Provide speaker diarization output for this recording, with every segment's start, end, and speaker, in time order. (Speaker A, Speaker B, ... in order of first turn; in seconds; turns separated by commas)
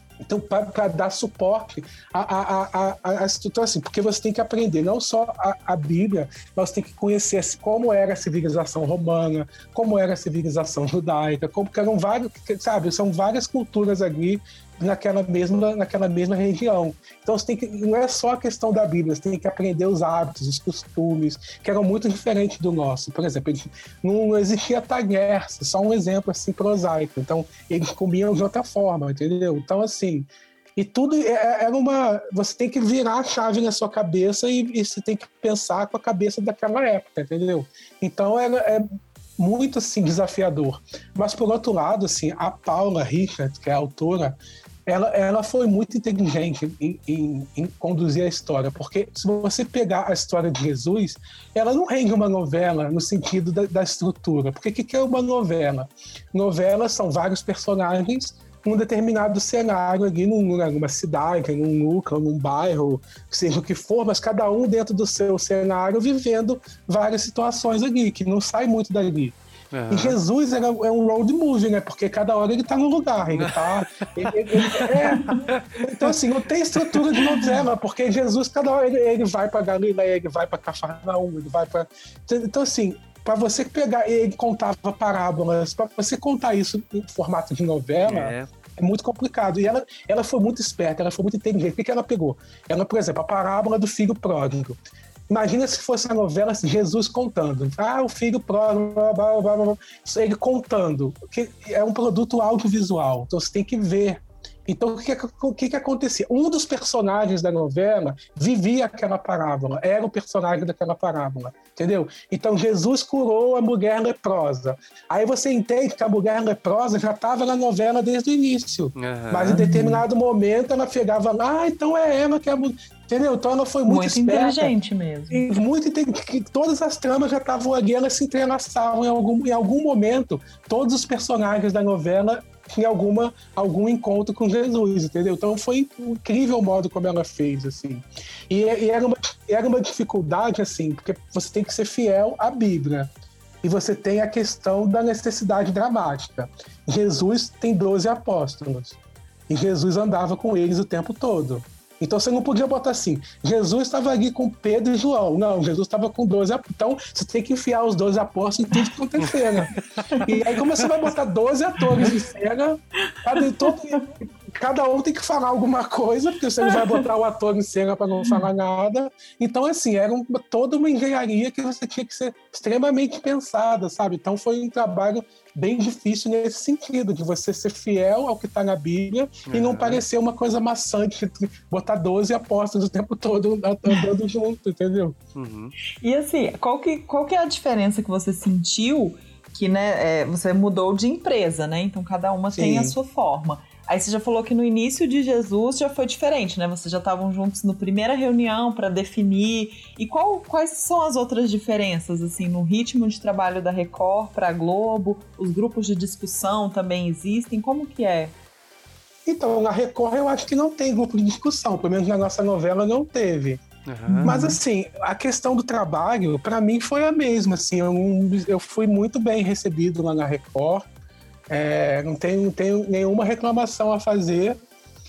Speaker A: 0.3-69.4, Speaker B: 69.7-70.2, Speaker A: 69.9-94.8, Speaker B: 73.3-76.2, Speaker B: 76.8-77.4, Speaker B: 88.0-88.5, Speaker A: 95.3-124.7, Speaker B: 119.0-119.6, Speaker C: 119.5-120.0, Speaker C: 123.9-125.5, Speaker A: 125.3-143.1, Speaker A: 143.6-159.7, Speaker A: 160.2-185.2, Speaker C: 163.4-164.1, Speaker C: 166.6-166.9, Speaker B: 179.5-180.0, Speaker B: 185.3-185.7, Speaker C: 186.0-208.3, Speaker A: 192.5-193.0, Speaker A: 209.3-213.6, Speaker B: 213.9-214.3, Speaker C: 214.1-214.6, Speaker A: 214.2-220.8, Speaker A: 221.5-224.6